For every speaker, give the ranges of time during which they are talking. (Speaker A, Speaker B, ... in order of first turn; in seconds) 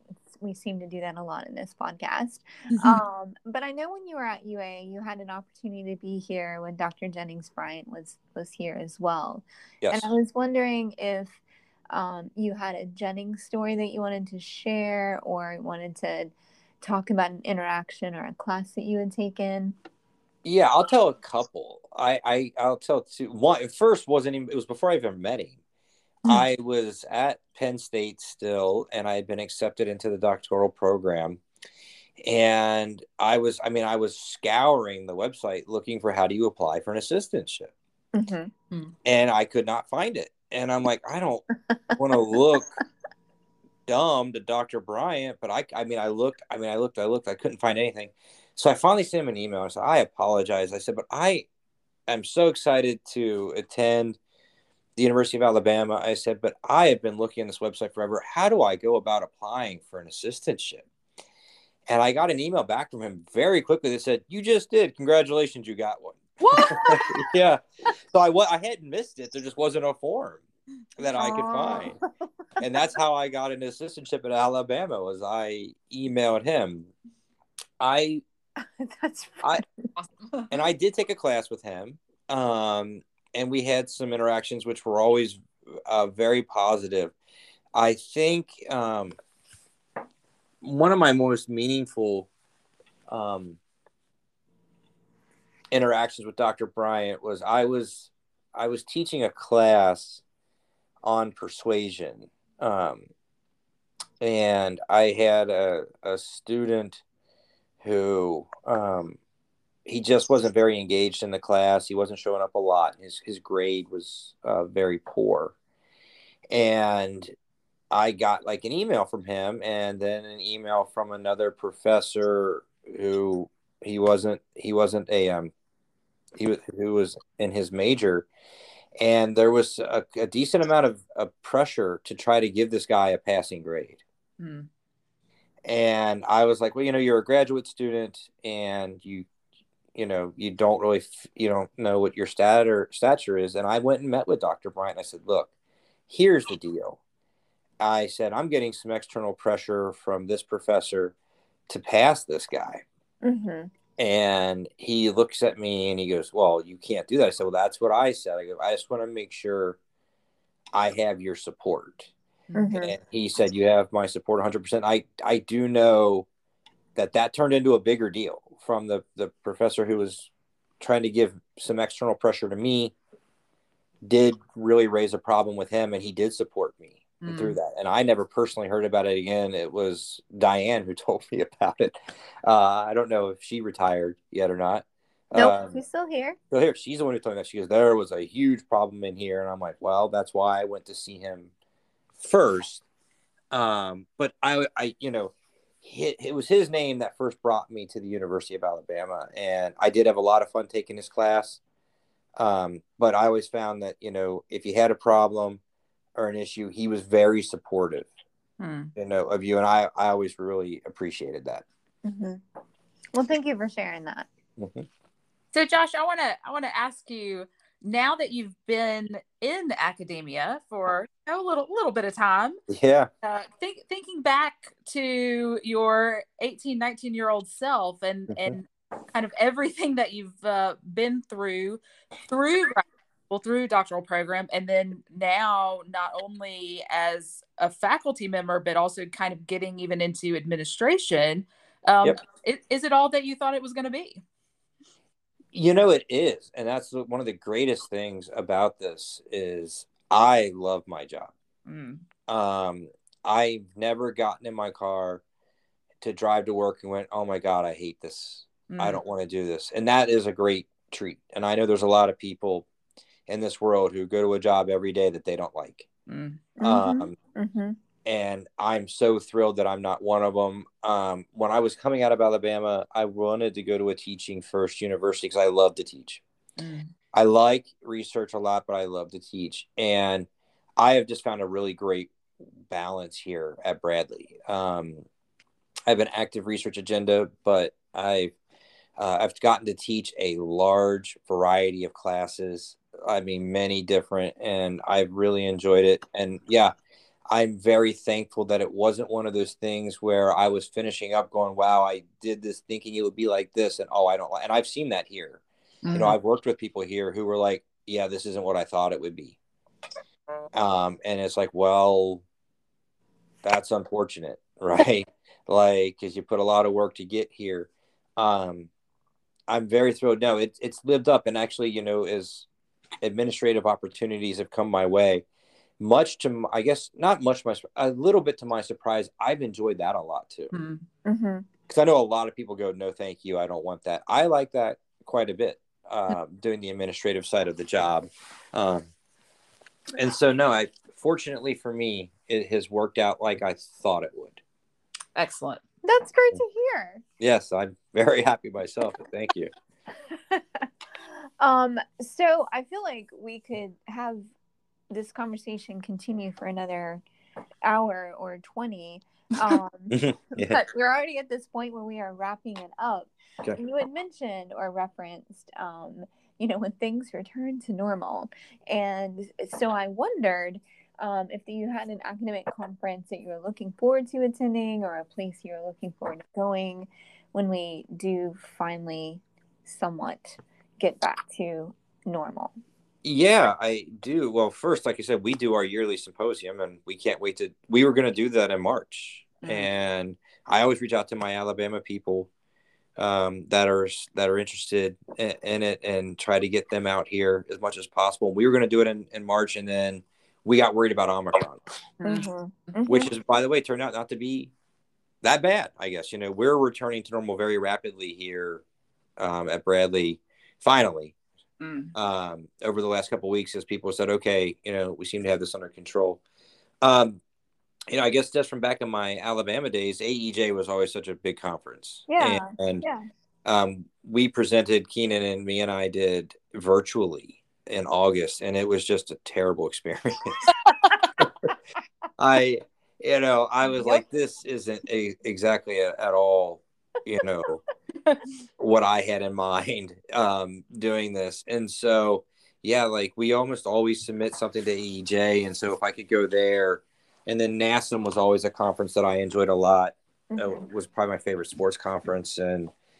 Speaker A: 0.3-19.8, 38.1-38.5, 66.6-67.0, 71.2-72.0, 78.6-79.9, 153.2-153.7, 162.5-162.9, 185.3-186.4, 212.0-212.4, 213.1-214.3, 266.6-267.8, 331.1-331.4, 345.8-347.0, 351.0-354.3, 354.9-357.0, 357.6-382.5, 402.0-403.1, 422.1-423.0, 450.3-450.6
Speaker B: 9.8-10.1, 20.4-25.6, 26.2-31.4, 32.2-37.7, 39.0-42.7, 43.9-51.5, 52.1-54.2, 55.0-60.9, 61.9-70.4, 71.0-72.0, 72.6-76.9, 77.8-78.2, 80.5-87.1, 87.7-89.1, 90.6-92.3, 93.1-93.6, 95.7-100.2, 101.0-103.1, 104.2-107.0, 107.8-109.2, 109.8-115.5, 116.5-117.3, 117.9-125.5, 126.4-128.3, 129.0-134.0, 135.7-139.3, 139.9-145.5, 146.1-147.0, 147.8-151.1, 151.7-152.8, 154.0-159.8, 160.7-162.1, 162.8-166.3, 166.9-172.9, 174.0-185.8, 186.5-191.5, 192.2-192.8, 193.5-201.6, 202.4-205.6, 206.2-208.1, 208.9-211.6, 214.6-214.9, 222.7-223.1, 228.3-228.6, 245.5-251.3, 252.3-255.2, 256.0-262.7, 263.3-265.9, 266.6-267.1, 268.0-276.2, 277.1-285.1, 285.9-288.3, 289.0-296.8, 297.3-305.4, 305.9-309.4, 310.5-312.2, 313.4-318.7, 319.5-322.4, 323.0-325.2, 325.8-330.5, 331.7-338.9, 339.9-344.4, 347.2-349.5, 359.9-360.6, 383.0-392.3, 393.0-401.6, 402.9-404.5, 405.2-408.6, 409.2-411.1, 411.9-416.2, 416.8-417.2, 417.9-422.8, 423.4-430.4, 432.2-437.6, 438.6-452.7
Speaker C: 66.4-67.2, 134.4-134.7, 162.5-162.7, 177.2-177.6, 208.6-208.9, 215.5-222.6, 223.2-244.2, 251.7-252.0, 258.7-259.0, 266.1-266.4, 276.6-276.9, 305.8-306.1, 330.5-330.8, 345.1-345.6, 389.4-389.7, 402.0-402.7, 411.6-411.9, 430.6-431.1